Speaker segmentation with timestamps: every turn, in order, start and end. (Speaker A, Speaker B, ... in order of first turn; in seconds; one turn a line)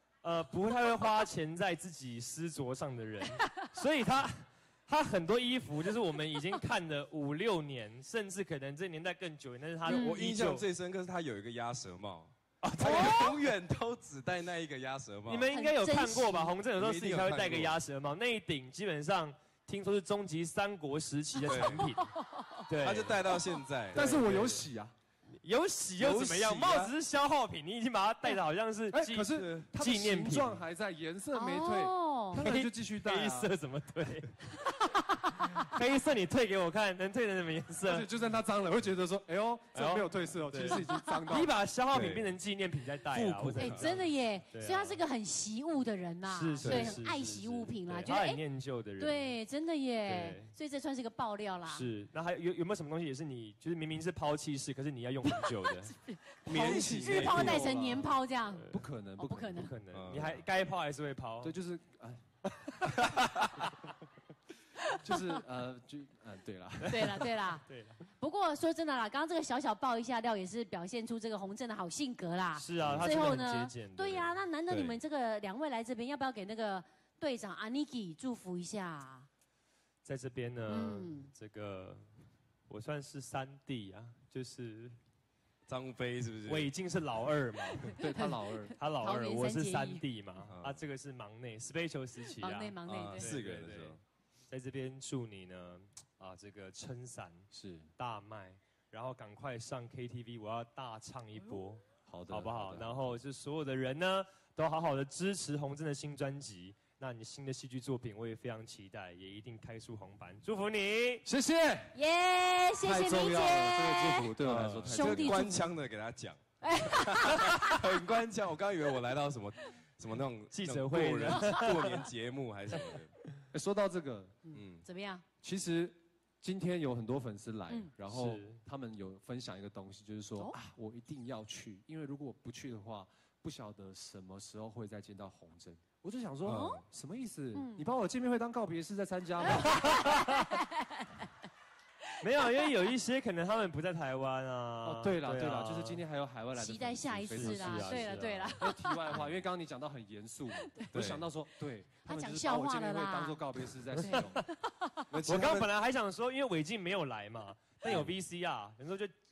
Speaker A: 0.2-10.6
Speaker B: 9.8-15.5
Speaker C: 9.9-10.2
Speaker C: 12.8-13.3
Speaker A: 15.3-22.1
Speaker C: 15.5-16.6
Speaker B: 16.7-17.8
Speaker B: 21.5-21.9
Speaker C: 21.5-22.5
Speaker A: 22.7-23.3
Speaker B: 22.8-24.5
Speaker A: 23.9-24.6
Speaker D: 23.9-24.9
Speaker A: 25.4-30.6
Speaker B: 26.0-26.9
Speaker D: 28.9-33.5
Speaker B: 29.4-29.7
Speaker C: 31.3-32.4
Speaker A: 32.4-34.7
Speaker A: 35.5-38.1
Speaker D: 37.8-41.6
Speaker A: 39.7-45.0
Speaker C: 40.7-41.0
Speaker B: 41.9-42.3
Speaker B: 43.1-43.9
Speaker C: 43.6-48.4
Speaker A: 46.2-49.4
Speaker B: 46.6-47.0
Speaker C: 49.0-51.9
Speaker A: 50.0-50.5
Speaker A: 51.7-55.9
Speaker C: 55.2-58.7
Speaker B: 56.5-57.8
Speaker D: 56.5-59.7
Speaker C: 59.2-59.7
Speaker A: 59.5-61.5
Speaker B: 59.9-60.4
Speaker D: 61.4-63.0
Speaker B: 63.0-63.6
Speaker D: 64.9-67.3
Speaker C: 66.9-67.6
Speaker A: 66.9-68.0
Speaker C: 68.2-79.3
Speaker A: 72.5-74.3
Speaker B: 72.8-73.3
Speaker B: 74.7-75.0
Speaker A: 80.0-82.1
Speaker C: 80.7-81.3
Speaker A: 82.7-85.0
Speaker B: 85.7-86.7
Speaker A: 86.5-87.9
Speaker D: 87.9-88.8
Speaker C: 88.0-88.4
Speaker A: 88.8-94.0
Speaker C: 88.9-90.0
Speaker B: 90.5-90.8
Speaker C: 92.4-93.3
Speaker B: 93.1-94.0
Speaker A: 94.5-97.5
Speaker D: 97.5-97.9
Speaker A: 98.0-111.2
Speaker D: 102.0-103.2
Speaker D: 111.2-112.0
Speaker C: 111.9-115.6
Speaker D: 112.8-115.6
Speaker B: 114.4-123.1
Speaker C: 116.6-117.7
Speaker A: 120.5-122.0
Speaker D: 123.5-124.5
Speaker C: 124.5-125.2
Speaker B: 124.5-124.8
Speaker D: 125.4-140.2
Speaker A: 128.1-128.6
Speaker B: 136.4-136.8
Speaker C: 136.5-136.8
Speaker C: 137.5-137.9
Speaker C: 139.4-141.2
Speaker A: 139.9-140.4
Speaker A: 142.2-146.0
Speaker D: 144.8-154.4
Speaker C: 146.6-149.2
Speaker A: 147.3-148.6
Speaker C: 150.5-150.9
Speaker B: 150.9-151.3
Speaker C: 152.0-153.4
Speaker C: 154.0-155.0
Speaker B: 155.1-155.7
Speaker A: 155.2-159.2